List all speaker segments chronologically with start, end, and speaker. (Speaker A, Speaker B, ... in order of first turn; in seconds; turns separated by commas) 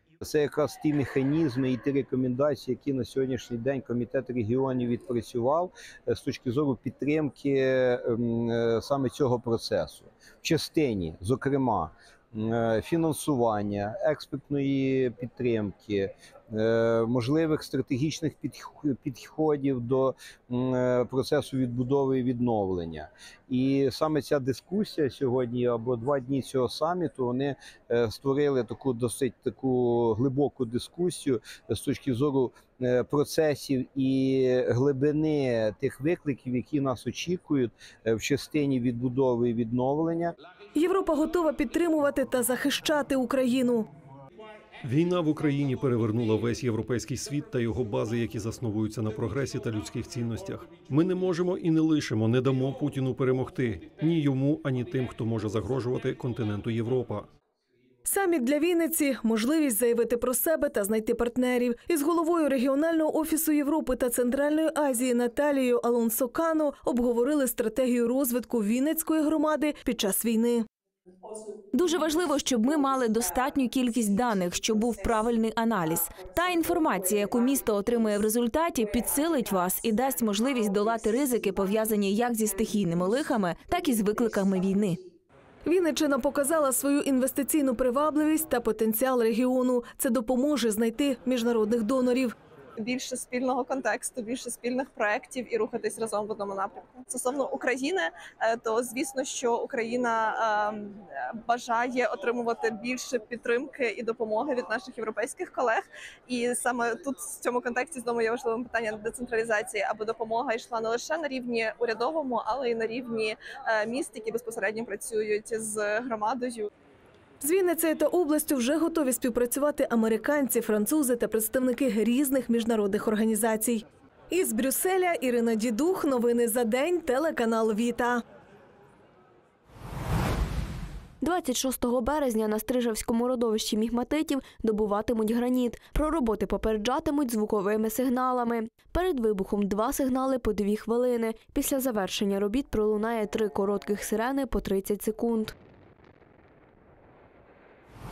Speaker A: 0.2-40.3, Speaker B: 40.7-43.9, Speaker C: 44.9-57.2, Speaker B: 58.0-70.6, Speaker D: 71.7-85.0, Speaker B: 85.6-92.3, Speaker E: 92.8-116.7, Speaker B: 117.4-128.2, Speaker F: 131.2-145.5